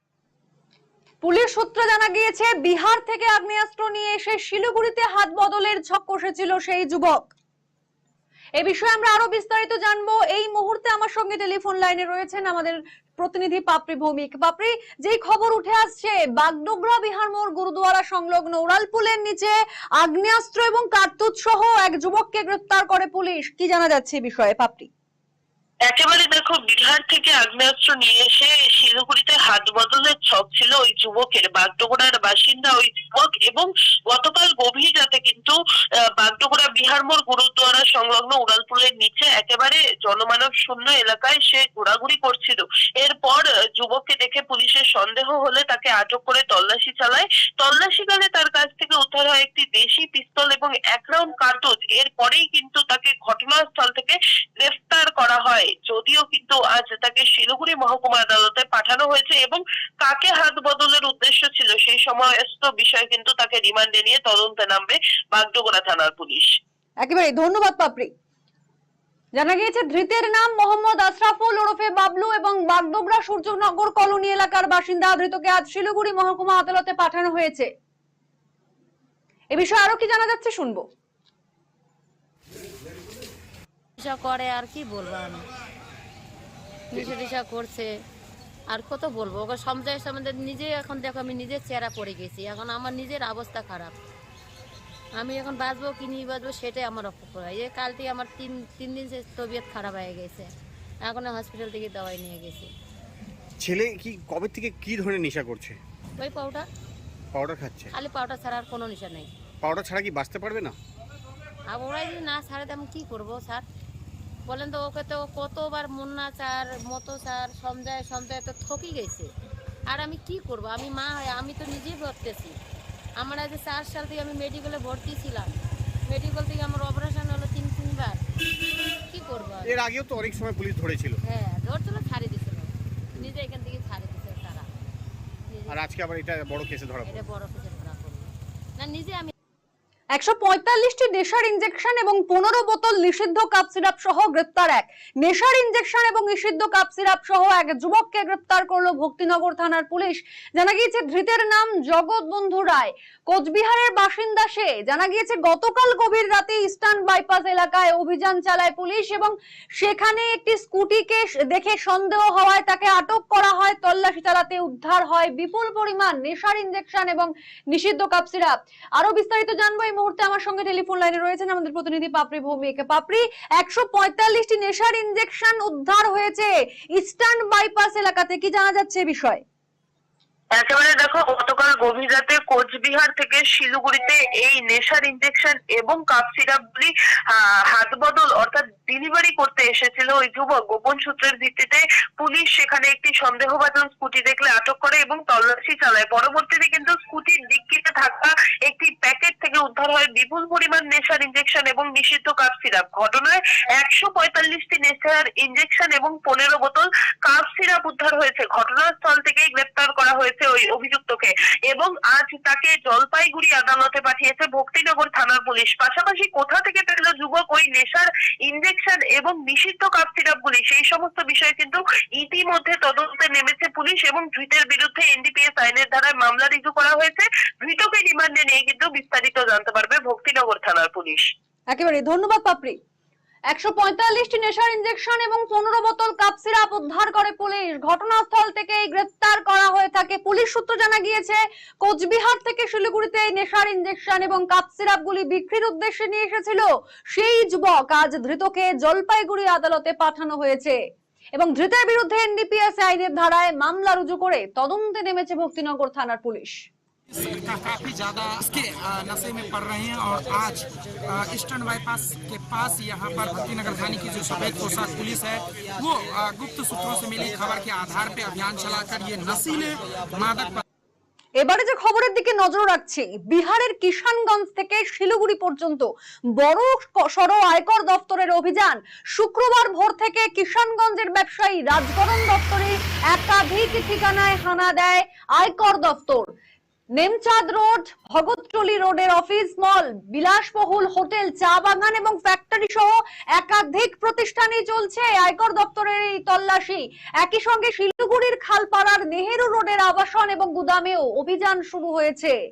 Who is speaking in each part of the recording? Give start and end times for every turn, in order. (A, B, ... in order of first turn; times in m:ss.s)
0:01.2-0:07.3 A
0:08.6-0:24.9 A
0:25.9-0:35.6 B
0:36.2-1:06.5 B
1:07.0-1:08.1 A
1:09.4-1:17.7 A
1:19.5-1:20.9 A
1:24.0-1:25.5 C
1:26.9-1:27.9 C
1:28.7-1:34.0 C
1:35.2-1:40.5 C
1:41.0-1:42.7 C
1:43.6-1:45.8 D
1:46.2-1:46.7 C
1:47.3-1:47.9 D
1:47.9-1:49.3 C
1:49.6-1:50.8 D
1:51.7-1:53.6 C
1:54.5-1:59.3 C
1:59.9-2:02.6 C
2:03.2-2:05.5 C
2:06.1-2:08.2 C
2:09.1-2:09.8 C
2:09.6-2:11.2 D
2:11.3-2:14.7 C
2:15.5-2:15.8 C
2:15.7-2:17.3 D
2:17.0-2:19.3 C
2:20.2-2:59.4 A
3:00.6-3:51.3 B
3:51.7-3:52.8 A
3:53.5-4:10.8 A
4:11.4-4:16.7 A
4:17.1-4:30.6 E
4:31.4-4:46.3 A
4:47.0-5:02.4 A